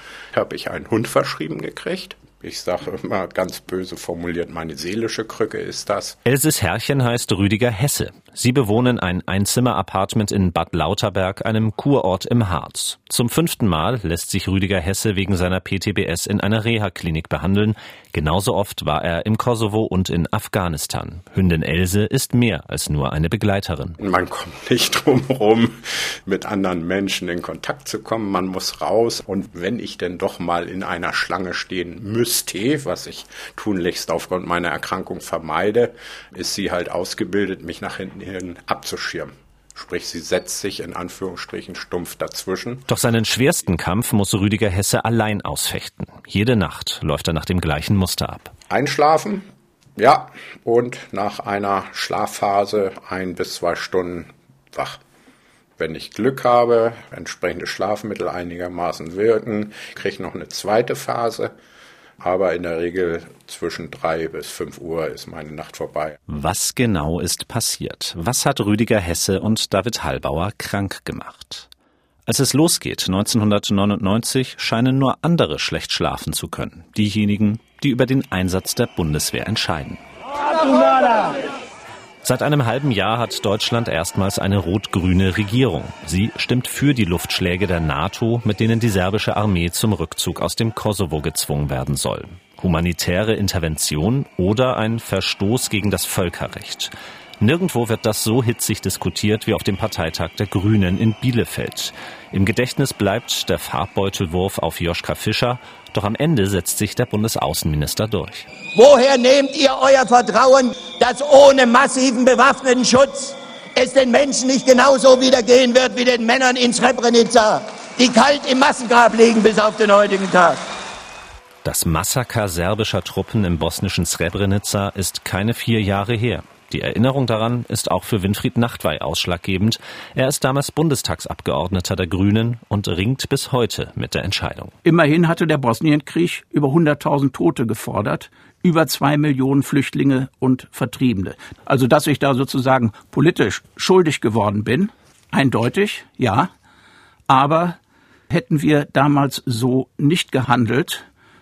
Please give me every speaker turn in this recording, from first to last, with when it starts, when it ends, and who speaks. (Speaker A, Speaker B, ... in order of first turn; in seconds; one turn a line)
Speaker A: 0.3-6.2
Speaker B: 6.2-24.0
Speaker A: 24.0-42.8
Speaker B: 42.9-48.5
Speaker A: 48.7-55.0
Speaker A: 55.8-61.5
Speaker A: 62.2-66.2
Speaker B: 66.3-71.7
Speaker B: 72.2-80.0
Speaker B: 82.2-108.5
Speaker C: 108.7-120.6
Speaker B: 121.6-134.7
Speaker D: 134.8-146.5
Speaker D: 147.3-147.8
Speaker D: 148.3-151.0